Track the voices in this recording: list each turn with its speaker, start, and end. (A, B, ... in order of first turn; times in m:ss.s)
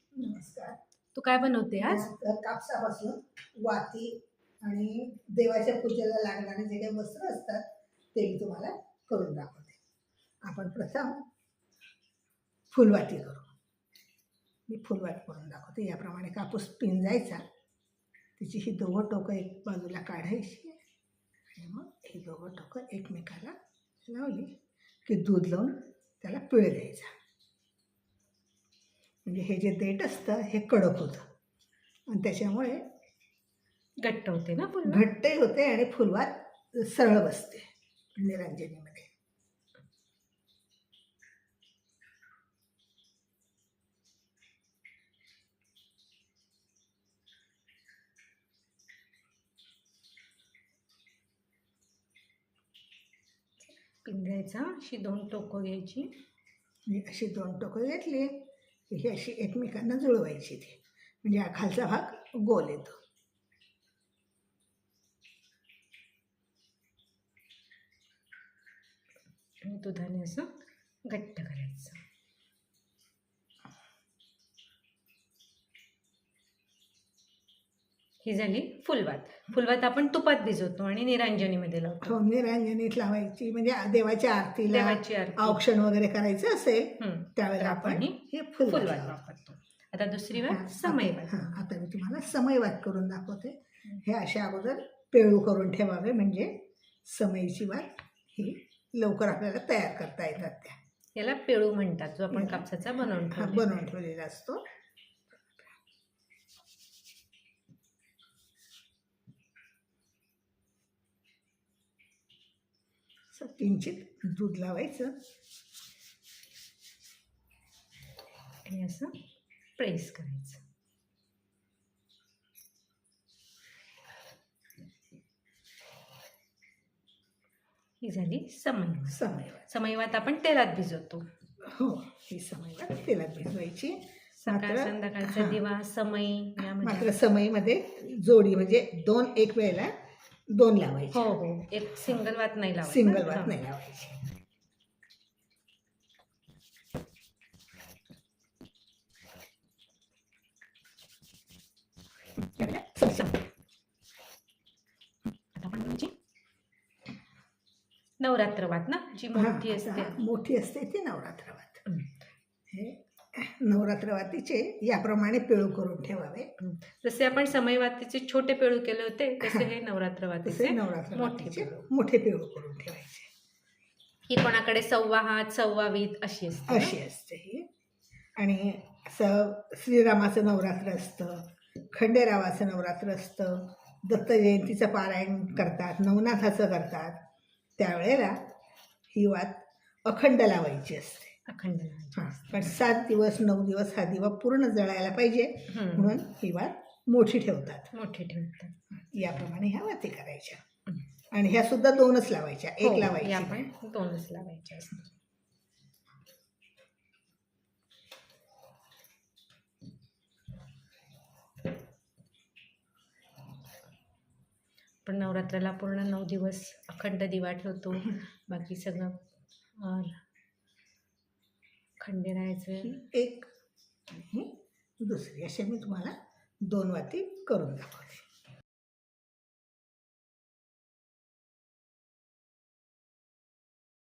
0:00.2-0:00.8 A
0:01.1-0:02.1 B
0:01.9-0:09.8 A
0:10.4-0:11.2 A
0:12.7-0:13.5 A
0:14.7-0:17.4 A
0:18.4-0:20.8 A
0:21.5-0:27.1 A
0:29.2-0:31.3 A
0:32.1-0:32.8 A
0:34.0-0:35.0 B
0:34.9-0:39.1 A
0:54.0-0:56.1 B
0:56.9-1:03.0 A
1:09.6-1:10.5 B
1:11.0-1:12.0 B
1:18.2-1:22.2 B
1:22.0-1:29.2 A
1:24.7-1:25.6 B
1:27.0-1:31.5 B
1:30.4-1:40.8 A
1:41.2-1:43.9 B
1:42.3-1:44.7 A
1:53.3-1:55.2 A
1:58.7-1:59.2 B
1:59.8-2:00.6 B
2:08.0-2:11.3 B
2:09.1-2:09.7 A
2:11.6-2:15.6 A
2:14.4-2:17.2 B
2:16.6-2:19.9 A
2:20.5-2:21.3 A
2:21.1-2:23.6 B
2:22.8-2:24.3 A
2:32.4-2:33.4 A
2:35.6-2:36.1 B
2:38.2-2:40.2 B
2:39.3-2:41.8 A
2:42.7-2:46.5 A
2:46.6-2:51.8 B
2:49.4-2:49.7 A
2:50.4-2:53.3 A
2:54.3-2:57.0 B
2:56.7-2:57.7 A
2:58.4-3:07.2 A
3:07.8-3:08.4 A
3:09.1-3:11.4 A
3:11.5-3:12.6 B
3:12.2-3:17.9 A
3:15.7-3:16.1 B
3:17.9-3:18.8 B
3:19.1-3:20.6 A
3:21.3-3:23.7 A
3:22.8-3:25.1 B
3:35.0-3:39.2 B
3:39.8-3:40.2 B
3:42.0-3:43.0 B
3:42.8-3:43.5 A
3:44.1-3:48.3 A